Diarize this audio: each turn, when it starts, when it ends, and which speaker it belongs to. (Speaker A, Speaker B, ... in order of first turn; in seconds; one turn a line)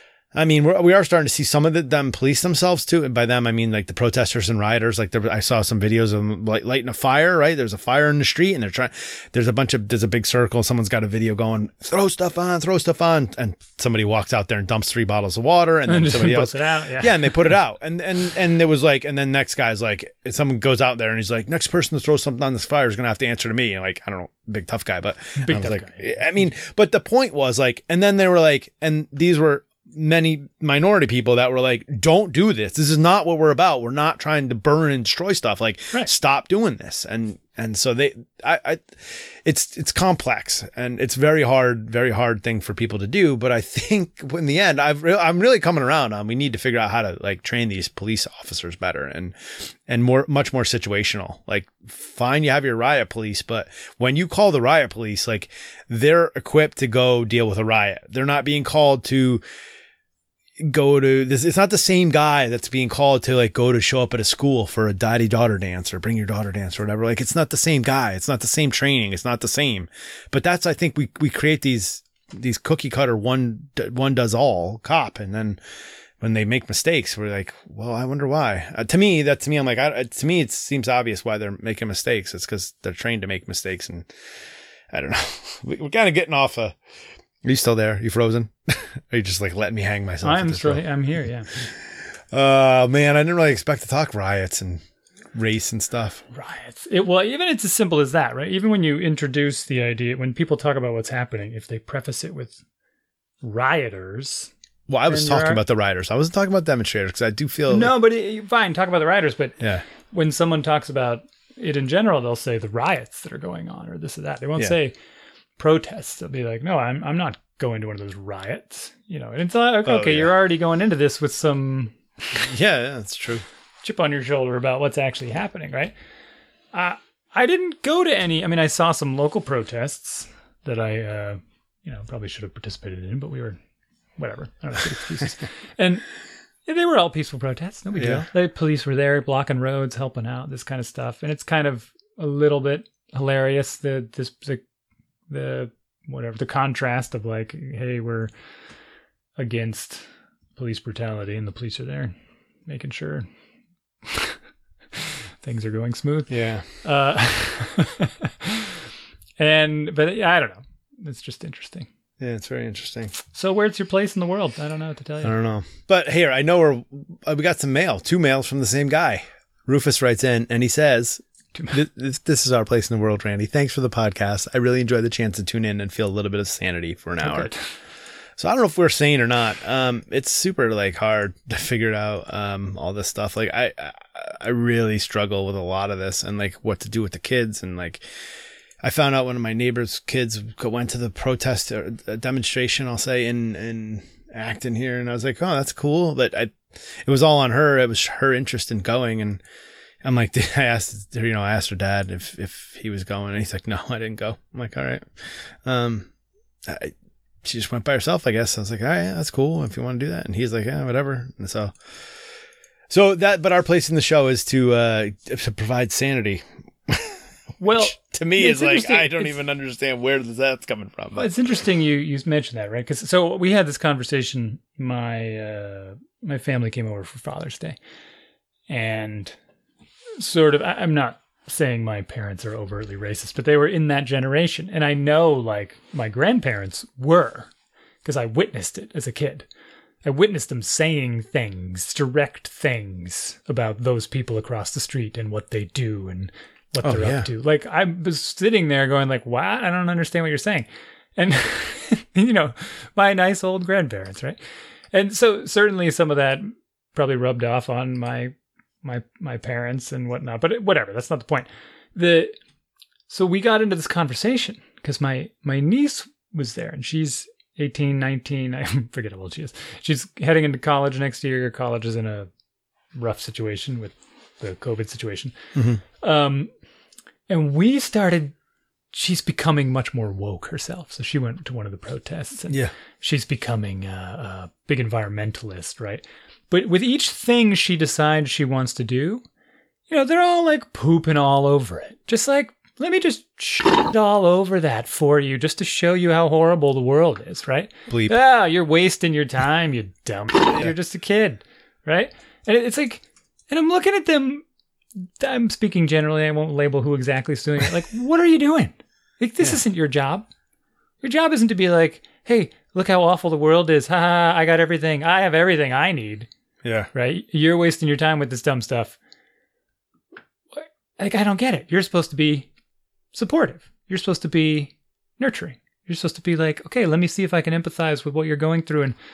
Speaker A: 0.3-49.3
Speaker B: 15.9-17.5
Speaker B: 25.4-26.1
Speaker A: 49.9-59.4
Speaker A: 60.6-75.6
Speaker A: 76.2-84.1
Speaker A: 84.9-86.8
Speaker A: 87.4-90.8
Speaker B: 90.2-91.5
Speaker A: 91.5-94.8
Speaker A: 95.3-96.2
Speaker B: 96.3-102.6
Speaker B: 103.4-104.5
Speaker A: 104.9-107.9
Speaker B: 105.1-105.6
Speaker B: 107.7-114.9
Speaker A: 109.6-109.8
Speaker B: 115.6-122.4
Speaker A: 119.8-120.3
Speaker A: 122.3-123.4
Speaker B: 123.8-126.0
Speaker B: 126.7-133.6
Speaker B: 134.2-136.1
Speaker B: 136.7-144.6
Speaker A: 138.0-138.3
Speaker B: 145.3-148.3
Speaker B: 149.4-152.1
Speaker B: 152.7-153.3
Speaker B: 154.0-154.4
Speaker B: 154.9-158.9
Speaker A: 156.3-156.7
Speaker B: 159.4-161.9
Speaker A: 162.2-163.1
Speaker B: 163.3-165.4
Speaker A: 165.2-177.5
Speaker B: 177.2-177.7
Speaker A: 178.4-188.0
Speaker A: 188.8-199.4
Speaker A: 200.0-206.1
Speaker A: 206.7-211.7
Speaker A: 212.9-217.2
Speaker B: 217.6-219.3
Speaker A: 217.8-221.3
Speaker B: 221.1-227.8
Speaker B: 228.7-229.3
Speaker B: 230.2-237.5
Speaker B: 238.0-239.5
Speaker B: 240.0-254.4
Speaker A: 246.8-247.3
Speaker B: 254.9-262.3
Speaker B: 263.1-272.3
Speaker B: 272.9-275.3
Speaker A: 275.5-275.8
Speaker B: 275.9-276.5
Speaker B: 277.3-278.3
Speaker B: 278.9-289.2
Speaker B: 289.9-304.4
Speaker A: 297.9-298.1
Speaker B: 305.0-310.3
Speaker B: 311.0-316.3
Speaker A: 316.6-316.9
Speaker B: 316.9-319.0
Speaker B: 320.5-322.5
Speaker B: 323.1-328.9